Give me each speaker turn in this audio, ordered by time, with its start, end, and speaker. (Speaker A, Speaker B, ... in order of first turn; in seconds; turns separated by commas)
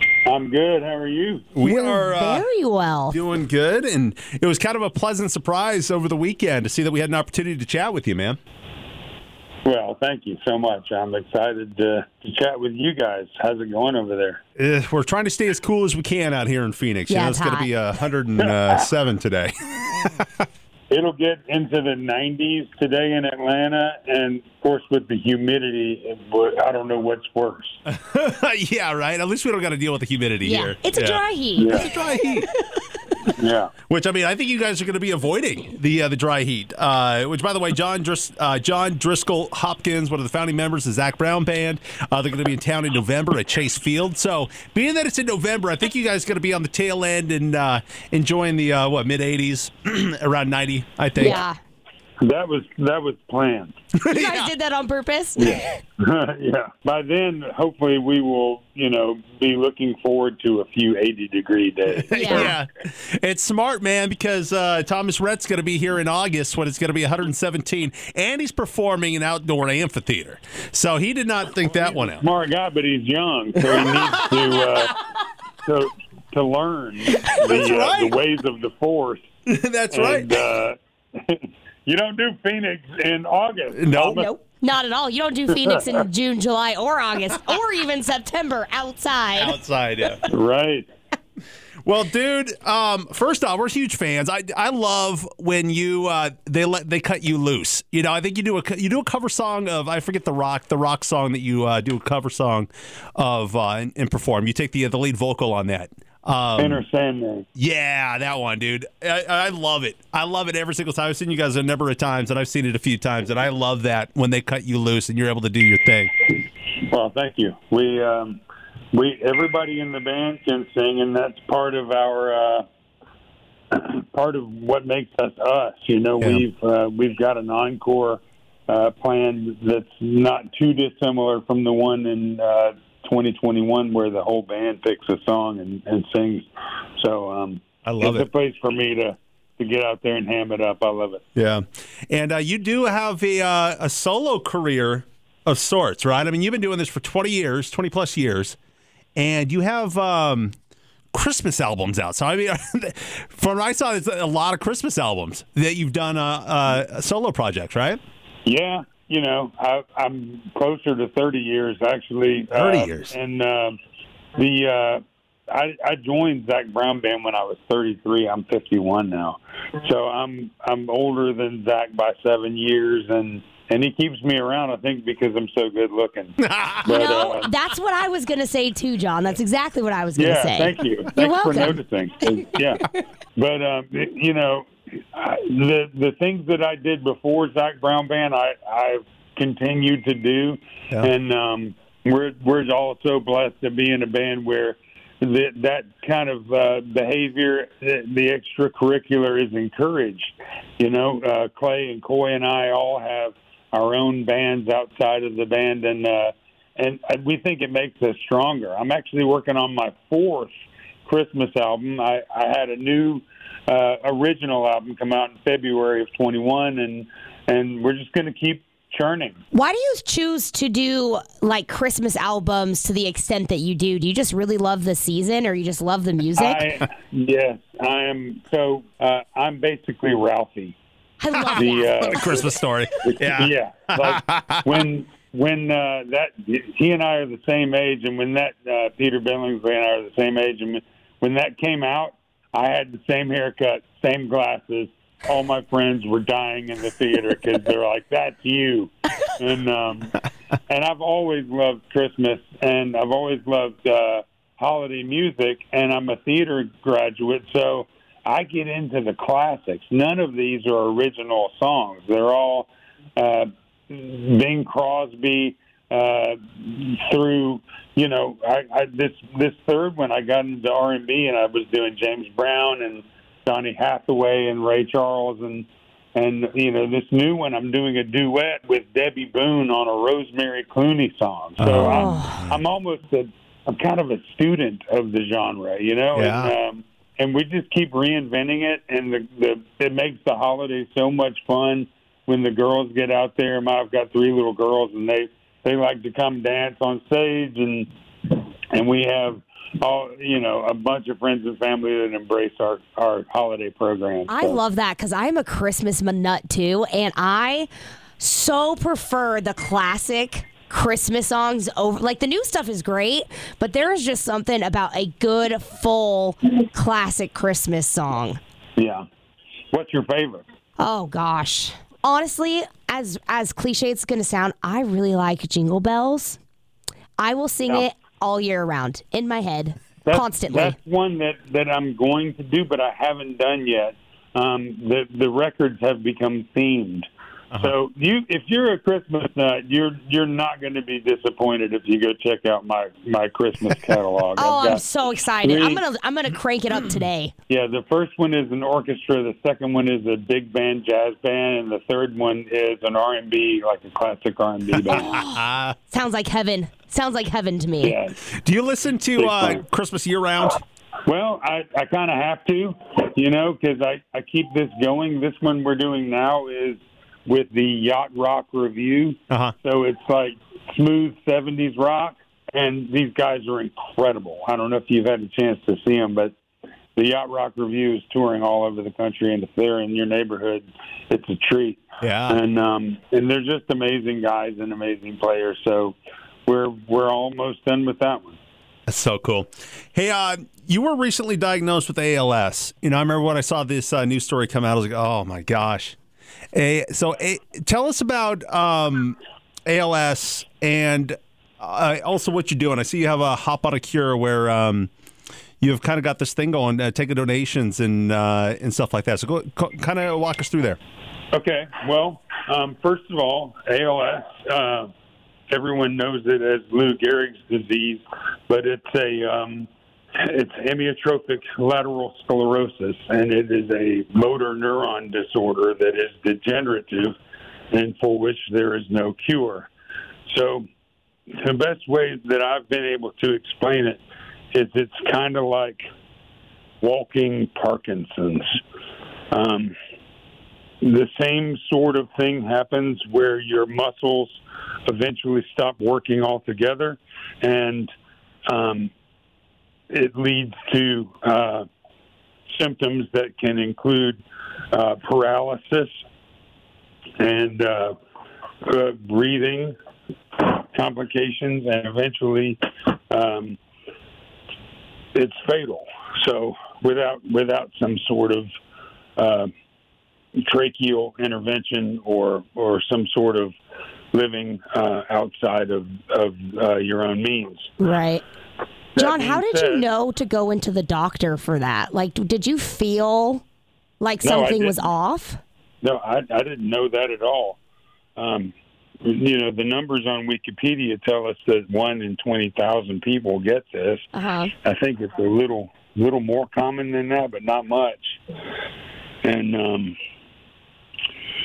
Speaker A: 0.2-1.5, Speaker B: 1.6-2.5, Speaker C: 1.6-3.1, Speaker B: 3.1-8.4, Speaker A: 9.6-14.4, Speaker B: 14.6-20.3, Speaker C: 17.1-17.7, Speaker A: 18.4-18.9, Speaker A: 20.9-27.8, Speaker B: 27.9-32.5, Speaker C: 30.4-31.9, Speaker A: 31.5-31.9, Speaker A: 33.4-33.7, Speaker B: 33.9-51.4, Speaker C: 51.2-51.6, Speaker A: 52.2-53.7, Speaker B: 54.0-54.5, Speaker C: 54.1-55.7, Speaker A: 55.4-62.6, Speaker B: 62.0-72.2, Speaker C: 62.1-62.5, Speaker A: 71.9-74.9, Speaker B: 73.6-74.2, Speaker A: 75.6-79.2, Speaker B: 77.1-78.2, Speaker B: 79.5-80.4, Speaker A: 79.9-84.3, Speaker B: 83.7-84.2, Speaker C: 84.0-89.5, Speaker B: 89.4-90.2, Speaker A: 90.3-90.9, Speaker B: 91.8-106.8, Speaker A: 106.6-107.5, Speaker B: 107.5-116.1, Speaker A: 116.9-118.4, Speaker A: 118.9-122.6, Speaker A: 123.7-141.2, Speaker B: 137.8-138.3, Speaker B: 141.3-148.6, Speaker B: 149.2-150.5, Speaker B: 151.1-158.0, Speaker A: 158.4-163.8, Speaker B: 162.5-163.1, Speaker A: 164.3-177.5, Speaker B: 176.4-176.8, Speaker C: 176.8-181.7, Speaker A: 180.1-210.5, Speaker A: 211.0-219.4, Speaker C: 219.5-226.6, Speaker A: 226.3-230.8, Speaker C: 231.2-232.4, Speaker B: 231.3-234.7, Speaker A: 231.5-232.5, Speaker A: 233.0-304.6, Speaker B: 281.6-282.5, Speaker C: 281.8-282.4, Speaker B: 286.1-286.5, Speaker C: 304.3-307.7, Speaker C: 308.2-318.4, Speaker A: 318.8-319.0, Speaker A: 319.7-320.4, Speaker C: 320.8-326.4, Speaker C: 327.2-330.8, Speaker A: 330.0-344.8, Speaker C: 344.4-347.3, Speaker A: 345.4-345.8, Speaker A: 347.5-355.1, Speaker B: 354.8-355.8, Speaker C: 354.9-357.9, Speaker A: 357.8-358.2, Speaker B: 358.2-360.6, Speaker A: 359.1-359.6, Speaker A: 361.1-376.3, Speaker B: 369.3-369.5, Speaker A: 376.9-388.4, Speaker B: 382.0-382.4, Speaker B: 388.9-396.0, Speaker B: 396.5-404.9, Speaker B: 405.6-410.8, Speaker A: 411.3-414.9, Speaker A: 415.5-427.1, Speaker A: 427.7-429.7, Speaker A: 430.3-430.6, Speaker A: 431.3-435.8, Speaker A: 436.8-438.4, Speaker A: 439.3-439.7, Speaker A: 440.8-447.9, Speaker A: 448.5-448.9, Speaker A: 449.9-451.6, Speaker A: 452.5-455.9, Speaker A: 457.2-457.9, Speaker A: 458.6-459.7, Speaker A: 460.4-463.6, Speaker A: 465.1-468.5, Speaker A: 469.1-469.5, Speaker A: 470.4-473.5, Speaker A: 474.1-477.7, Speaker C: 477.8-478.2, Speaker A: 478.9-479.9, Speaker C: 479.0-483.4, Speaker C: 484.0-485.4, Speaker A: 484.2-484.9, Speaker A: 485.8-487.6, Speaker A: 488.2-494.1, Speaker C: 494.1-494.5, Speaker A: 494.6-498.2, Speaker A: 499.2-499.9